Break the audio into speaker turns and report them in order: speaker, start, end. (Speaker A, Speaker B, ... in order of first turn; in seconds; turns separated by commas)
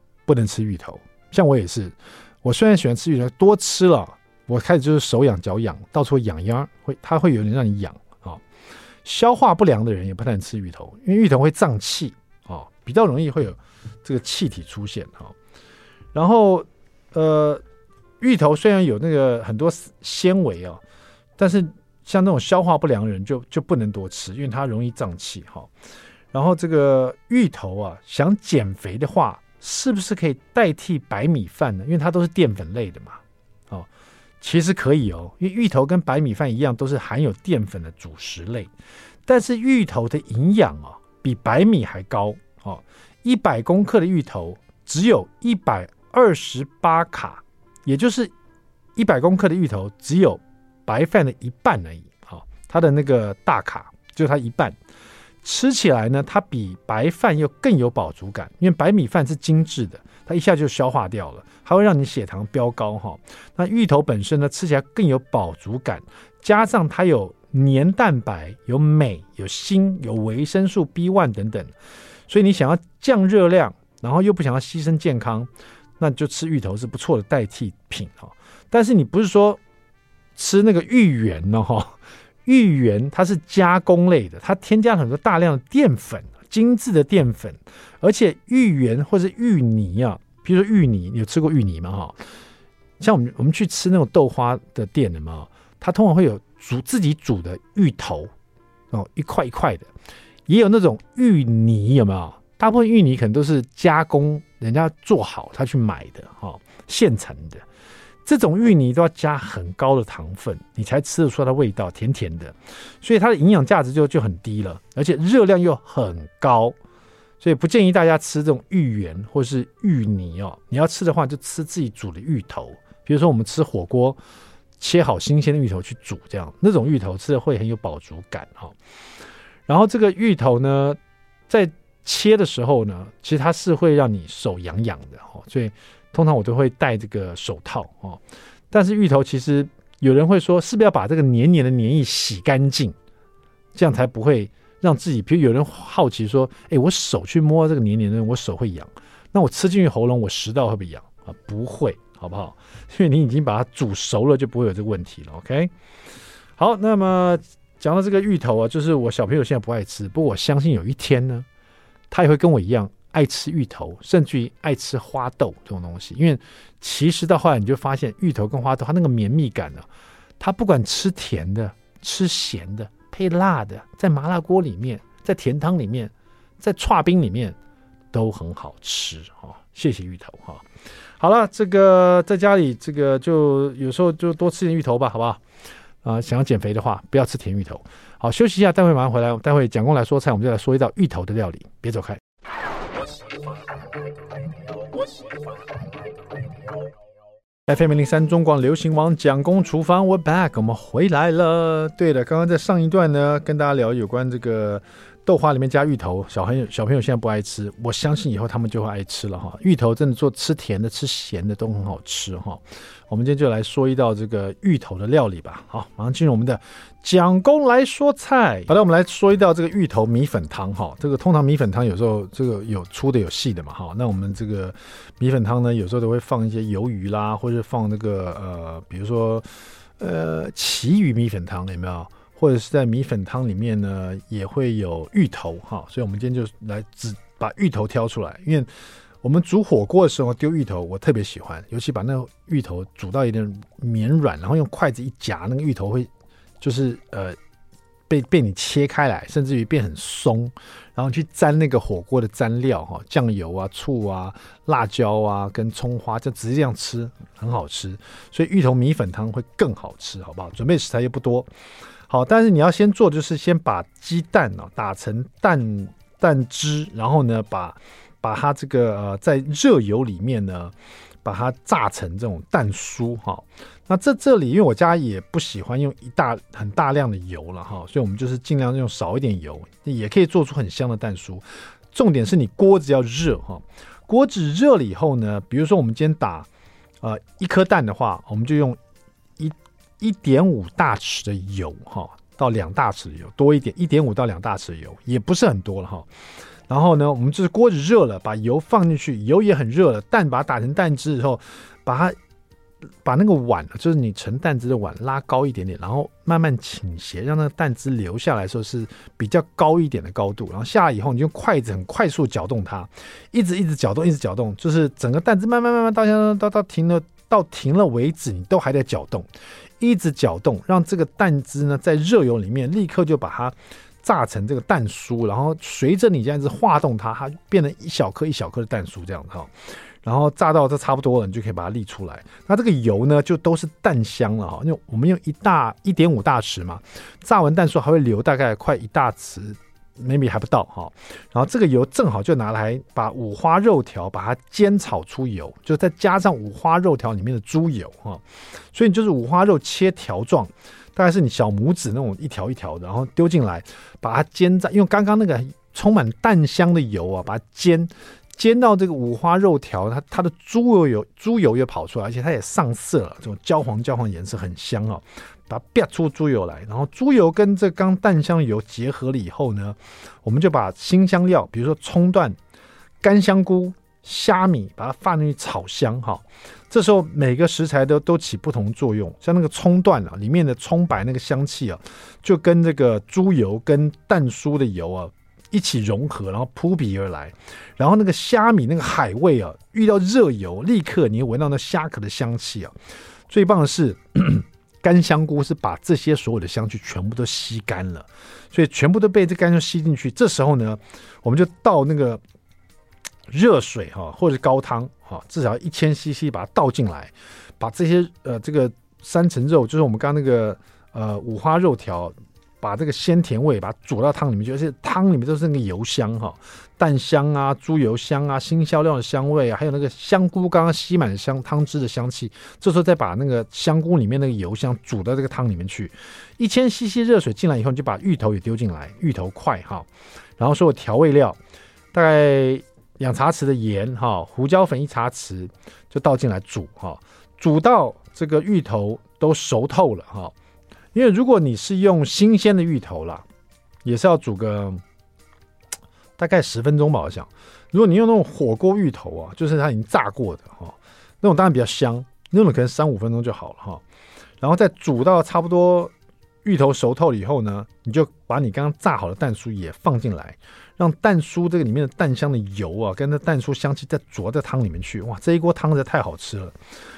Speaker A: 0.3-8.4, Speaker A: 9.1-15.3, Speaker A: 16.1-17.6, Speaker A: 18.2-20.8, Speaker A: 21.4-25.7, Speaker A: 26.3-33.9, Speaker A: 34.4-38.7, Speaker A: 39.3-48.3, Speaker A: 49.0-54.8, Speaker A: 55.4-71.7, Speaker A: 72.3-79.6, Speaker A: 80.4-92.2, Speaker A: 93.0-98.3, Speaker A: 98.9-99.9, Speaker A: 100.5-107.6, Speaker A: 108.2-116.8, Speaker A: 117.4-124.2, Speaker A: 124.8-128.7, Speaker A: 129.7-131.0, Speaker A: 131.5-143.0, Speaker A: 143.8-155.7, Speaker A: 156.6-161.5, Speaker A: 162.1-169.9, Speaker A: 170.4-177.6, Speaker A: 178.1-180.6, Speaker A: 181.2-185.4, Speaker A: 186.0-192.2, Speaker A: 197.7-229.5, Speaker A: 230.0-238.7, Speaker A: 239.2-246.1, Speaker A: 246.6-247.4, Speaker A: 248.1-261.5, Speaker A: 262.1-270.7, Speaker A: 271.2-286.5, Speaker A: 287.0-288.8, Speaker A: 289.4-296.1, Speaker A: 296.7-302.2, Speaker A: 303.0-319.3, Speaker A: 319.8-329.5, Speaker A: 330.0-372.4, Speaker A: 373.0-392.7, Speaker A: 393.3-402.2, Speaker A: 403.3-431.4, Speaker A: 431.9-440.3, Speaker A: 440.9-443.2, Speaker A: 443.8-444.8, Speaker A: 446.2-453.8, Speaker A: 454.4-455.9, Speaker A: 456.4-466.6